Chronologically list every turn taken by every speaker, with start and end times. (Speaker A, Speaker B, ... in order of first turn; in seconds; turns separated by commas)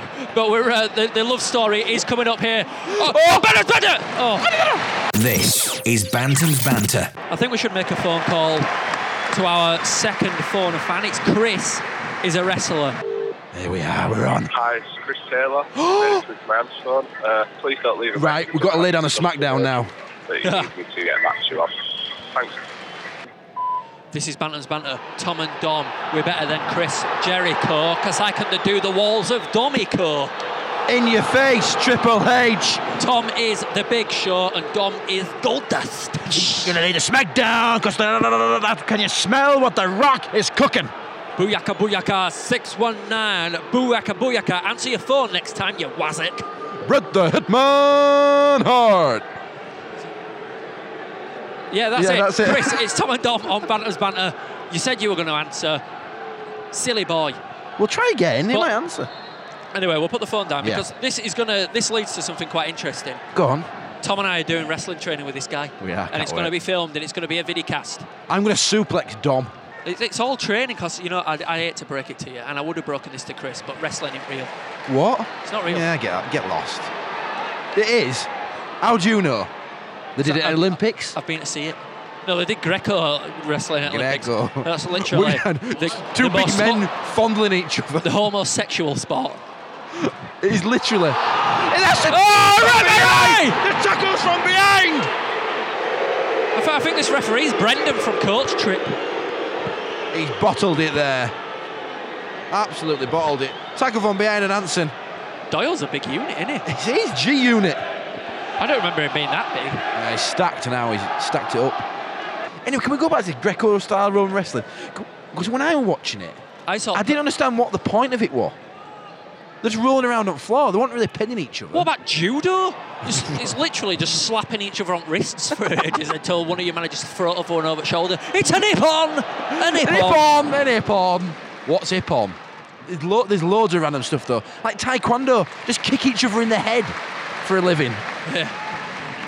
Speaker A: 0.2-4.5, Speaker B: 2.9-3.5, Speaker B: 4.4-4.8, Speaker C: 5.1-7.1, Speaker A: 7.3-8.7, Speaker A: 9.3-13.0, Speaker B: 13.5-14.5, Speaker D: 14.5-21.7, Speaker B: 15.7-16.2, Speaker B: 18.1-19.9, Speaker A: 20.4-20.7, Speaker D: 22.3-22.6, Speaker A: 24.1-30.3, Speaker B: 30.9-32.8, Speaker A: 33.0-36.7, Speaker B: 36.3-40.9, Speaker A: 41.4-46.5, Speaker B: 46.8-49.2, Speaker A: 51.7-55.8, Speaker B: 51.9-52.8, Speaker A: 56.7-57.4, Speaker B: 57.8-59.1, Speaker A: 59.7-63.2, Speaker B: 63.3-63.7, Speaker A: 64.0-68.1, Speaker B: 65.8-66.5, Speaker B: 68.3-69.5, Speaker A: 69.8-74.5, Speaker B: 74.9-76.9, Speaker A: 75.4-75.9, Speaker B: 77.7-78.3, Speaker B: 78.8-79.5, Speaker B: 80.1-81.2, Speaker A: 80.2-86.9, Speaker B: 83.8-88.2, Speaker A: 88.0-89.4, Speaker B: 90.0-95.1, Speaker A: 92.1-93.6, Speaker A: 96.5-98.9, Speaker B: 100.1-101.3, Speaker B: 102.5-104.9, Speaker A: 105.5-106.7, Speaker B: 106.7-107.8, Speaker A: 108.6-109.8, Speaker B: 109.9-111.8, Speaker B: 112.6-116.4, Speaker A: 116.7-117.2, Speaker B: 116.9-118.6, Speaker B: 119.6-121.9, Speaker A: 121.7-130.2, Speaker B: 123.1-123.4, Speaker B: 129.5-138.0, Speaker A: 138.2-138.5